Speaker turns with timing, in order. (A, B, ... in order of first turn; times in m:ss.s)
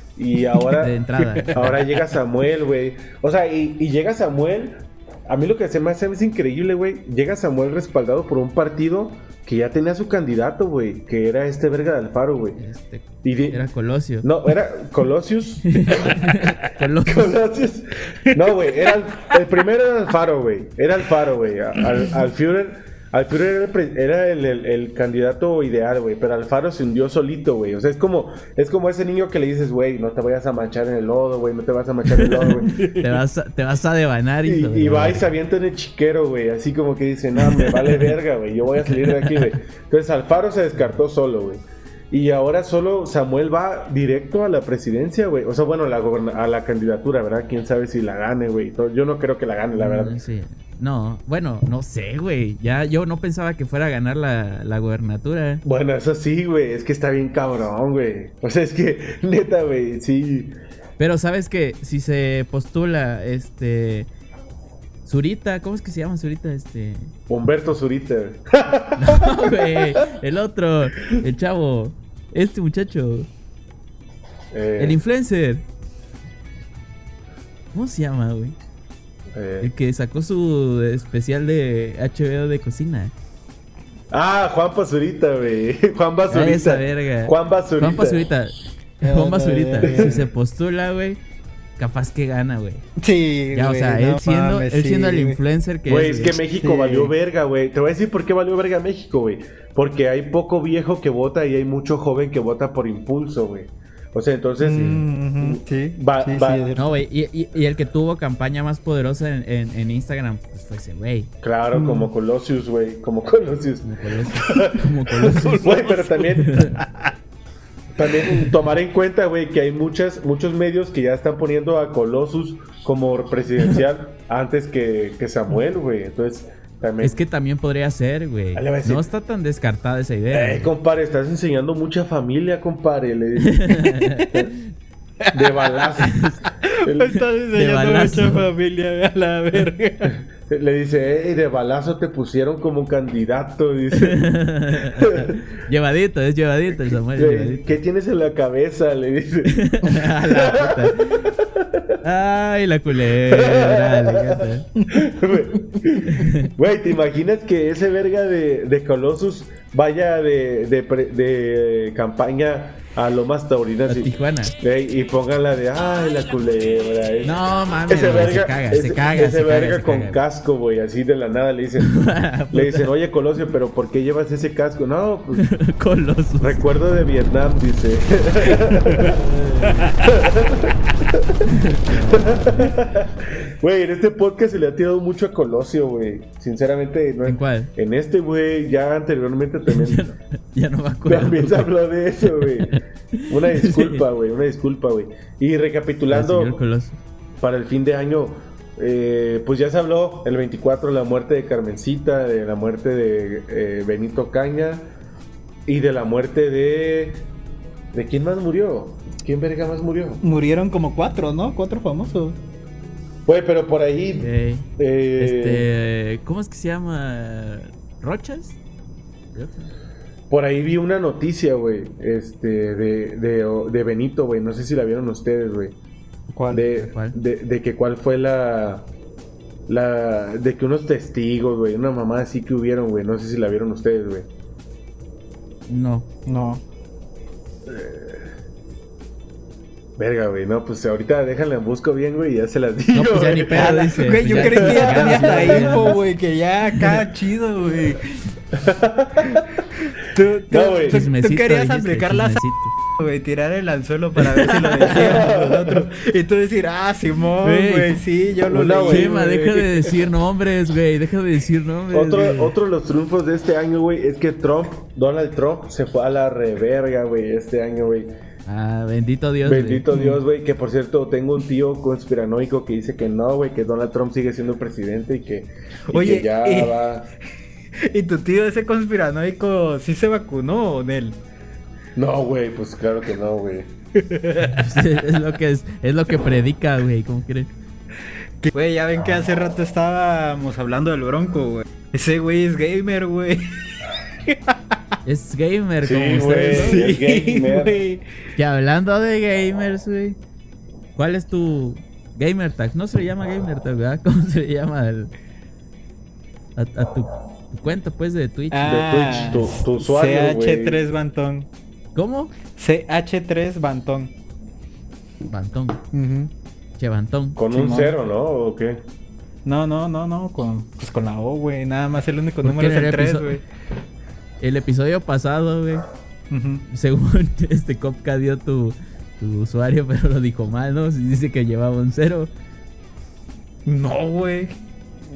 0:00.2-0:12.6 A
0:00.7-0:02.0 B
0:12.6-0:14.3 B
0:13.2-0:13.6 A
0:14.2-0:32.9 A
0:15.7-0:17.4 B
0:32.2-0:35.3 B
0:32.8-0:33.0 C
0:34.4-0:50.2 A
0:37.4-0:38.2 B
0:38.8-0:39.6 B
0:49.8-0:55.6 B
0:55.6-1:00.6 A
1:01.0-1:04.1 B
1:05.1-1:07.1 B
1:07.3-1:09.7 A
1:09.0-1:13.3 B
1:14.5-1:15.0 A
1:14.8-1:15.6 B
1:17.7-1:18.6 B
1:19.3-1:19.7 A
1:19.6-1:23.1 B
1:24.1-1:28.2 A
1:26.3-1:31.2 B
1:29.0-1:30.2 C
1:29.8-1:30.2 A
1:31.8-1:32.8 B
1:33.0-1:35.4 C
1:33.5-1:36.4 B
1:35.9-1:46.7 A
1:36.6-1:37.1 C
1:44.6-1:46.8 C
1:44.7-1:45.0 B
1:46.8-1:51.3 B
1:51.4-1:56.7 A
1:51.7-1:52.1 C
1:53.8-1:56.8 B
1:58.0-2:07.2 A
2:07.0-2:10.7 B
2:08.6-2:09.0 A
2:10.3-2:14.5 A
2:13.4-2:14.4 B
2:15.3-2:15.8 C
2:15.3-2:17.2 A
2:16.0-2:16.4 B
2:16.7-2:20.2 C
2:17.5-2:18.5 B
2:20.1-2:24.2 A
2:23.9-2:27.8 B
2:25.0-2:25.4 A
2:27.1-2:32.0 A
2:29.5-2:31.3 B
2:32.0-2:34.7 B
2:33.2-2:55.5 A
2:36.2-2:36.5 B
2:43.9-2:44.5 B
2:47.3-2:50.2 B
2:51.8-2:52.9 B
2:55.4-2:56.7 B
2:56.4-2:59.2 A
2:59.0-3:00.0 B
3:00.0-3:10.1 A
3:01.4-3:02.7 B
3:07.2-3:07.7 B
3:09.7-3:11.7 B
3:11.1-3:16.6 A
3:12.2-3:14.0 B
3:16.1-3:17.0 B
3:17.4-3:24.9 A
3:25.7-3:27.2 A
3:27.9-3:30.2 A
3:30.2-3:32.4 C
3:33.3-3:35.7 A
3:34.2-3:34.7 B
3:35.2-3:38.6 B
3:39.4-3:39.7 B
3:40.3-3:45.8 A
3:46.3-3:46.9 C
3:46.5-3:48.9 A
3:46.9-3:47.2 B
3:49.7-3:54.3 A
3:55.7-3:56.1 B
3:56.3-3:56.6 C
3:57.7-3:58.3 A
4:00.0-4:05.8 A
4:02.9-4:06.0 B
4:03.8-4:08.2 C
4:08.5-4:09.6 A
4:10.0-4:12.4 C
4:10.5-4:11.1 A
4:10.9-4:12.7 B
4:13.0-4:19.5 C
4:14.2-4:15.2 B
4:15.0-4:15.9 A
4:17.4-4:18.0 B
4:18.5-4:19.7 A
4:18.9-4:22.6 B
4:21.9-4:28.1 A
4:28.5-4:29.9 B
4:29.4-4:37.1 A
4:29.9-4:30.2 C
4:35.9-4:36.8 C
4:37.8-4:41.2 C
4:42.0-4:43.7 A
4:44.0-4:44.6 C
4:44.5-4:47.5 B
4:48.4-4:53.7 C
4:54.3-4:54.8 C
4:55.0-4:56.8 B
4:55.8-4:57.8 A
4:56.6-4:58.0 C
4:58.4-5:00.2 B
5:01.0-5:05.1 B
5:06.6-5:08.8 B
5:08.5-5:11.5 C
5:08.6-5:10.8 A
5:12.0-5:12.3 B
5:12.6-5:14.1 C
5:15.3-5:15.8 B
5:15.9-5:16.3 C
5:16.8-5:17.4 B
5:17.4-5:18.8 A
5:17.5-5:18.0 C
5:19.4-5:23.4 C
5:22.4-5:23.4 B
5:24.4-5:25.9 B
5:26.3-5:26.6 C
5:26.7-5:32.3 B
5:33.7-5:34.6 C